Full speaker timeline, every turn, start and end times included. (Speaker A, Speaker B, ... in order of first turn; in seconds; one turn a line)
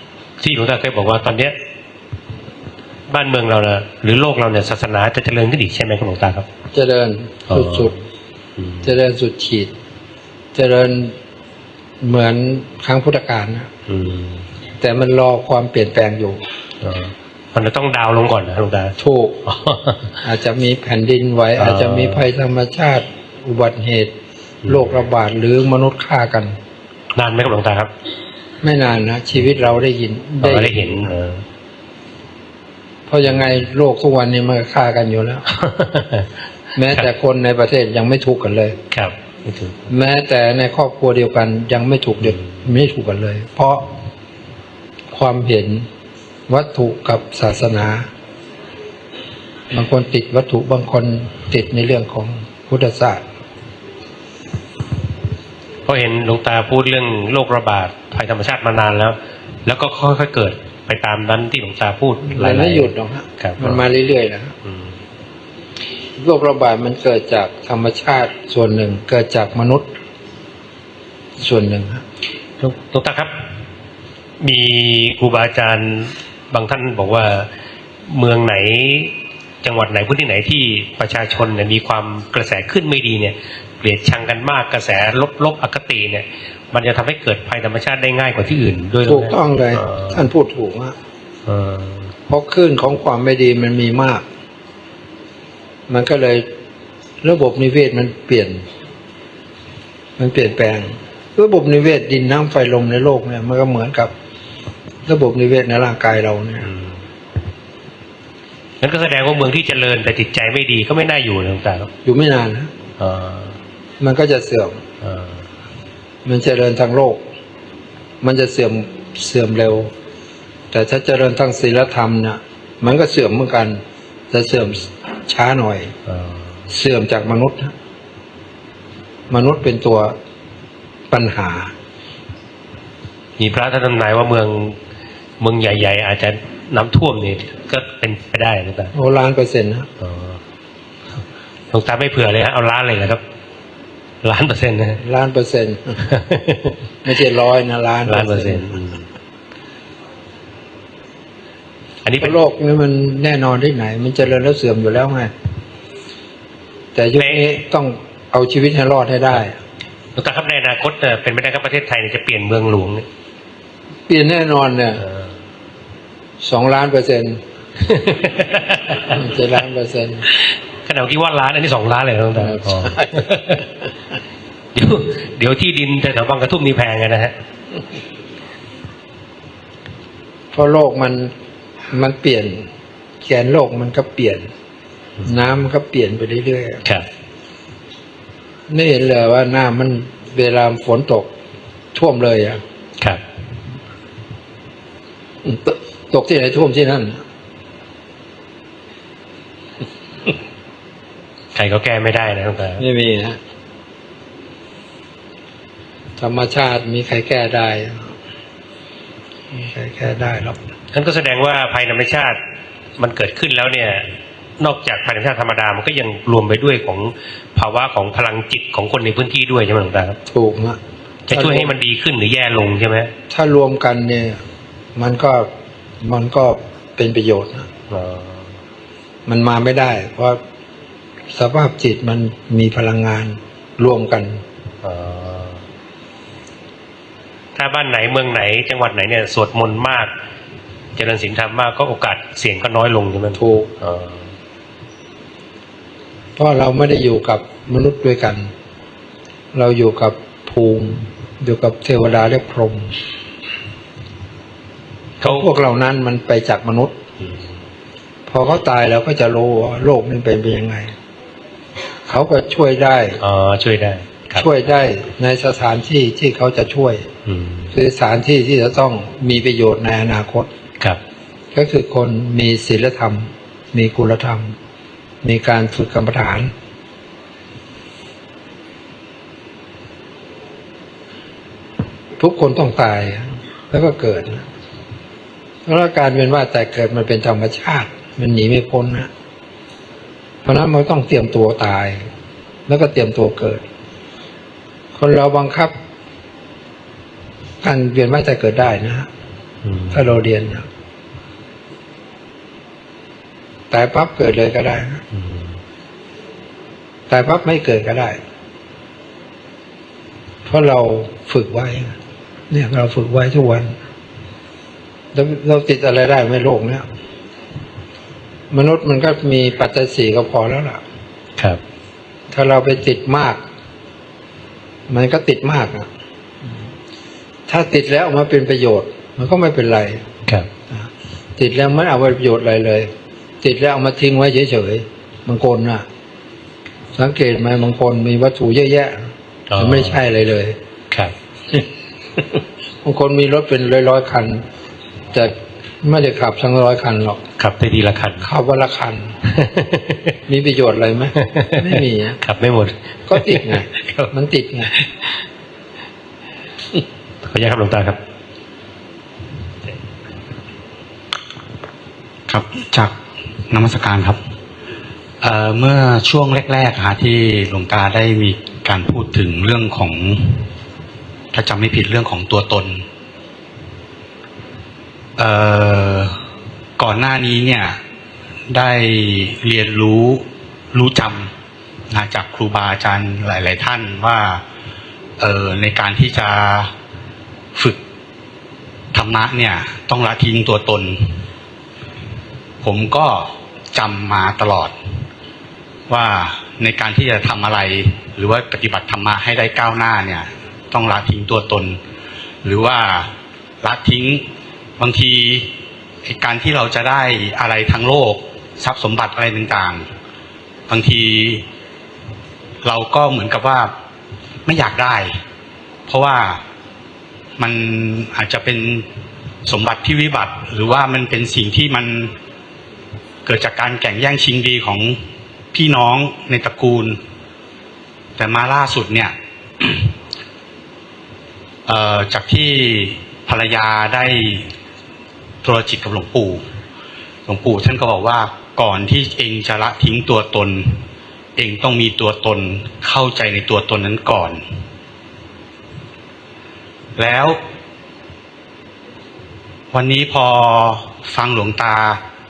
Speaker A: 0.4-1.6
Speaker A: 3.1-6.5
Speaker B: 6.7-7.9
Speaker A: 7.5-7.9
Speaker A: 8.6-8.8
Speaker B: 8.8-9.7
Speaker B: 10.5-11.2
Speaker B: 12.0-13.7
Speaker A: 13.9-14.5
Speaker B: 14.8-16.4
Speaker A: 16.8-20.2
Speaker B: 19.0-19.4
Speaker B: 20.2-24.1
Speaker A: 21.6-22.3
Speaker A: 24.6-25.0
Speaker B: 24.7-26.6
Speaker A: 27.1-27.9
Speaker B: 28.6-31.1
Speaker A: 30.4-31.4
Speaker B: 33.1-35.5
Speaker A: 35.5-36.3
Speaker B: 36.8-38.8
Speaker A: 38.9-39.8
Speaker B: 39.9-43.9
Speaker B: 45.1-45.9
Speaker B: 46.5-48.1
Speaker B: 49.7-53.3
Speaker A: 55.9-63.8
Speaker B: 62.3-64.5
Speaker A: 64.7-64.9
Speaker B: 66.2-69.9
Speaker B: 71.4-72.0
Speaker A: 72.6-73.4
Speaker A: 74.4-77.5
Speaker A: 78.1-90.2
Speaker B: 89.0-91.0
Speaker A: 91.5-92.1
Speaker B: 92.3-94.3
Speaker B: 95.9-96.5
Speaker B: 97.2-98.7
Speaker B: 100.2-104.1
Speaker B: 105.1-106.7
Speaker A: 106.7-107.0
Speaker A: 108.8-111.9
Speaker B: 112.0-112.7
Speaker A: 113.0-113.6
Speaker B: 114.0-114.8
Speaker A: 115.0-115.4
Speaker B: 116.2-117.2
Speaker B: 118.2-119.9
Speaker B: 120.7-125.9
Speaker A: 126.1-126.5
Speaker B: 126.7-127.7
Speaker B: 129.3-130.2
Speaker B: 131.1-131.7
Speaker A: 133.4-134.8
Speaker A: 135.4-138.9
Speaker B: 138.9-139.9
Speaker A: 140.0-140.4
Speaker A: 141.7-143.2
Speaker A: 144.2-145.0
Speaker B: 145.0-146.0
Speaker A: 146.1-146.8
Speaker B: 147.1-148.6
Speaker A: 148.1-149.1
Speaker A: 152.0-152.4
Speaker B: 152.2-155.3
Speaker B: 156.9-159.6
Speaker A: 157.2-157.4
Speaker A: 160.2-163.1
Speaker B: 164.1-165.0
Speaker B: 166.4-167.4
Speaker A: 167.8-169.2
Speaker B: 169.1-170.2
Speaker A: 170.4-173.6
Speaker B: 172.4-173.3
Speaker A: 174.7-177.3
Speaker B: 180.5-181.3
Speaker B: 181.9-182.7
Speaker B: 183.2-184.5
Speaker B: 185.2-186.8
Speaker B: 188.7-191.3
Speaker B: 191.9-192.6
Speaker B: 195.4-197.2
Speaker A: 201.6-202.8
Speaker B: 202.8-203.4
Speaker B: 206.2-208.2
Speaker B: 209.5-210.6
Speaker A: 210.9-212.4
Speaker A: 213.0-220.2
Speaker B: 220.3-220.8
Speaker A: 221.3-223.1
Speaker B: 221.3-221.7
Speaker B: 223.3-224.4
Speaker B: 225.0-225.5
Speaker B: 226.0-227.7
Speaker A: 227.9-228.6
Speaker B: 229.3-230.4
Speaker B: 231.3-234.4
Speaker A: 234.8-235.6
Speaker A: 237.6-240.1
Speaker A: 241.0-244.3
Speaker B: 243.4-243.7
Speaker B: 246.4-248.5
Speaker B: 249.5-253.0
Speaker A: 255.2-255.5
Speaker B: 255.2-257.0
Speaker A: 257.2-257.5
Speaker B: 258.3-260.9
Speaker B: 262.1-263.2
Speaker A: 263.2-264.5
Speaker B: 264.4-267.1
Speaker A: 267.2-267.7
Speaker B: 267.7-270.5
Speaker B: 271.5-274.6
Speaker B: 275.2-276.5
Speaker B: 282.2-284.5
Speaker B: 285.7-289.1
Speaker B: 290.4-292.0
Speaker B: 292.7-293.6
Speaker B: 294.9-295.8
Speaker B: 297.6-299.1
Speaker A: 299.6-300.0
Speaker B: 299.9-300.7
Speaker B: 303.7-305.0
Speaker A: 305.1-305.5
Speaker B: 307.1-308.2
Speaker B: 310.5-312.0
Speaker B: 312.5-313.8
Speaker B: 315.1-316.8
Speaker B: 318.5-320.8
Speaker B: 322.3-323.4
Speaker B: 324.9-325.9
Speaker B: 327.5-330.1
Speaker B: 330.7-335.9
Speaker B: 336.9-340.6
Speaker A: 339.5-340.0
Speaker B: 342.2-344.4
Speaker B: 345.1-347.2
Speaker A: 347.4-348.3
Speaker B: 348.2-349.1
Speaker A: 349.3-350.2
Speaker B: 350.3-352.2
Speaker A: 351.2-354.1
Speaker B: 353.1-354.7
Speaker A: 357.2-358.0
Speaker C: 362.3-362.9
Speaker C: 363.5-364.2
Speaker C: 365.2-370.5
Speaker C: 371.3-372.8
Speaker C: 375.2-376.2
Speaker C: 376.8-377.8
Speaker C: 378.5-381.3
Speaker C: 381.9-384.4
Speaker C: 385.2-386.7
Speaker C: 388.9-391.2
Speaker C: 392.6-394.7
Speaker C: 395.9-401.8
Speaker C: 402.4-404.2
Speaker C: 404.8-405.5
Speaker C: 406.0-409.9
Speaker C: 410.7-411.4
Speaker C: 412.6-413.7
Speaker C: 414.5-415.2
Speaker C: 415.9-416.4
Speaker C: 417.4-418.9
Speaker C: 419.5-422.1
Speaker C: 423.3-425.0
Speaker C: 425.5-427.0
Speaker C: 428.2-429.9
Speaker C: 431.7-434.5
Speaker C: 435.4-436.4
Speaker C: 437.3-440.9
Speaker C: 441.4-444.4
Speaker C: 447.0-447.4
Speaker C: 449.7-452.0